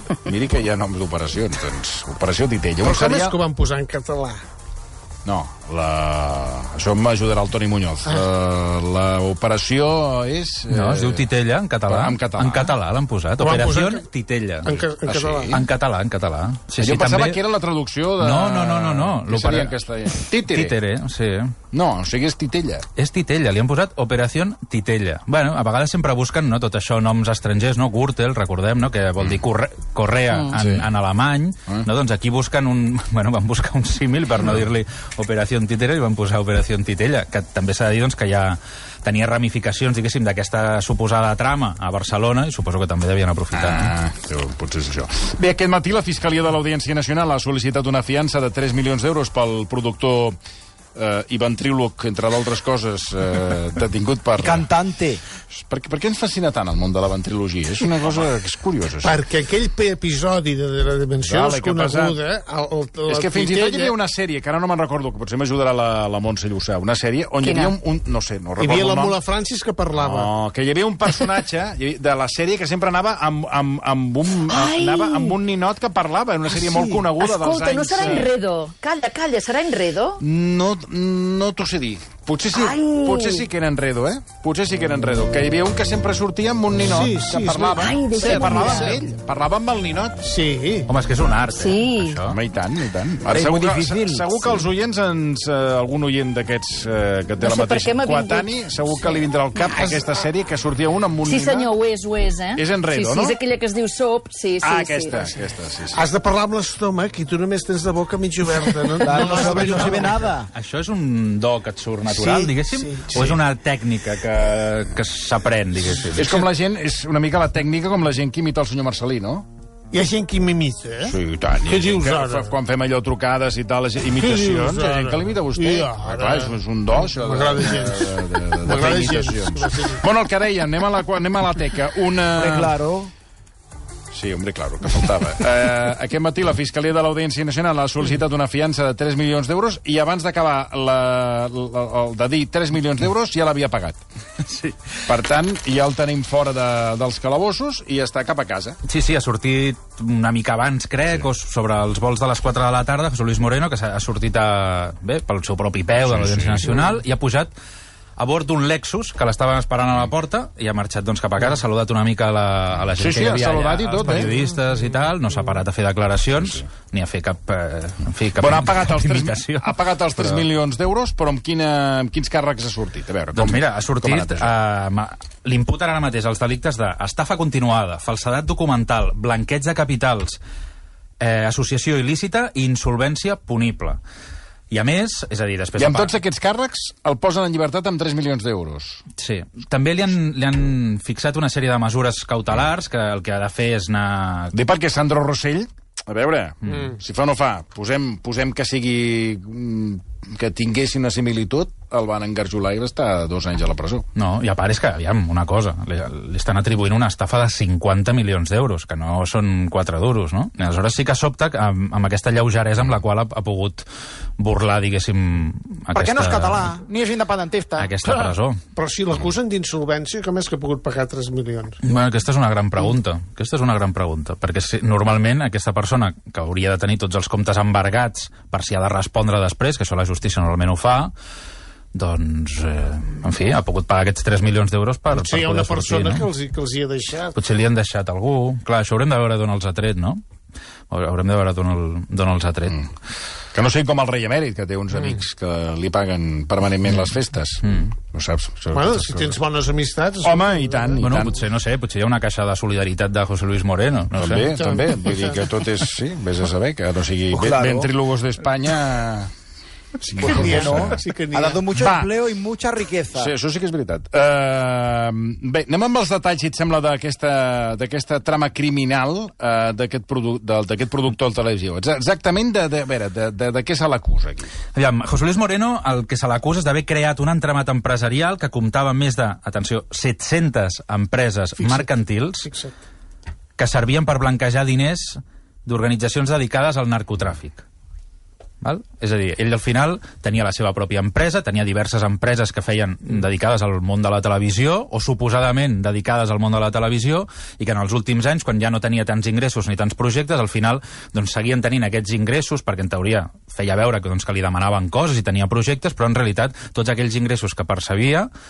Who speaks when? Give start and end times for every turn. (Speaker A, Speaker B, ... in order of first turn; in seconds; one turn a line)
Speaker A: 0.2-3.4
Speaker B: 2.8-4.4
Speaker A: 5.2-11.3
Speaker C: 10.7-17.4
Speaker A: 11.9-12.7
Speaker B: 13.4-14.1
Speaker B: 14.6-15.6
Speaker A: 14.8-15.6
Speaker A: 16.8-20.7
Speaker C: 18.2-19.8
Speaker C: 20.4-21.5
Speaker A: 21.7-22.9
Speaker C: 22.9-43.9
Speaker A: 30.5-30.9
Speaker A: 43.5-50.4
Speaker A: 50.9-54.7
Speaker D: 54.4-55.2
Speaker A: 55.5-59.2
Speaker B: 59.0-63.9
Speaker A: 61.2-62.2
Speaker A: 63.1-69.2
Speaker E: 67.4-67.7
Speaker B: 68.6-70.3
Speaker A: 69.9-78.3
Speaker E: 74.4-75.3
Speaker E: 77.1-80.2
Speaker A: 80.2-90.2
Speaker E: 82.5-83.5
Speaker B: 86.8-87.9
Speaker E: 87.8-89.0
Speaker B: 90.2-90.9
Speaker C: 90.9-92.4
Speaker E: 91.5-92.2
Speaker A: 92.3-101.7
Speaker D: 93.3-94.6
Speaker E: 97.4-99.2
Speaker E: 101.2-105.2
Speaker A: 102.5-103.4
Speaker A: 104.6-106.0
Speaker B: 105.9-110.3
Speaker D: 109.0-110.5
Speaker A: 109.2-109.8
Speaker C: 109.8-116.5
Speaker D: 112.1-113.3
Speaker A: 116.1-119.5
Speaker B: 119.9-122.5
Speaker A: 121.0-132.7
Speaker B: 124.2-130.0
Speaker D: 132.3-133.1
Speaker A: 134.1-144.0
Speaker C: 144.4-145.0
Speaker A: 145.1-148.8
Speaker C: 148.8-157.5
Speaker A: 156.0-156.9
Speaker C: 158.2-170.4
Speaker A: 162.9-164.3
Speaker A: 166.4-166.7
Speaker A: 168.4-174.6
Speaker C: 173.3-180.4
Speaker C: 181.2-184.0
Speaker C: 184.7-186.1
Speaker A: 185.8-189.0
Speaker C: 189.2-194.5
Speaker A: 194.5-204.1
Speaker C: 196.6-196.9
Speaker C: 204.2-213.8
Speaker C: 214.4-216.8
Speaker D: 215.9-217.9
Speaker C: 217.8-218.6
Speaker B: 218.8-221.8
Speaker C: 221.8-231.1
Speaker C: 231.9-236.2
Speaker B: 235.1-237.4
Speaker C: 237.3-240.2
Speaker C: 240.9-242.8
Speaker A: 243.5-249.4
Speaker B: 248.7-251.2
Speaker A: 250.2-251.4
Speaker C: 251.0-254.5
Speaker A: 254.1-259.3
Speaker B: 254.5-255.5
Speaker D: 257.3-257.9
Speaker A: 260.0-261.0
Speaker D: 260.2-263.3
Speaker B: 260.2-261.7
Speaker A: 261.7-262.2
Speaker A: 263.1-274.5
Speaker C: 274.7-282.5
Speaker B: 281.6-281.9
Speaker B: 282.4-282.7
Speaker C: 283.6-287.6
Speaker C: 288.6-308.3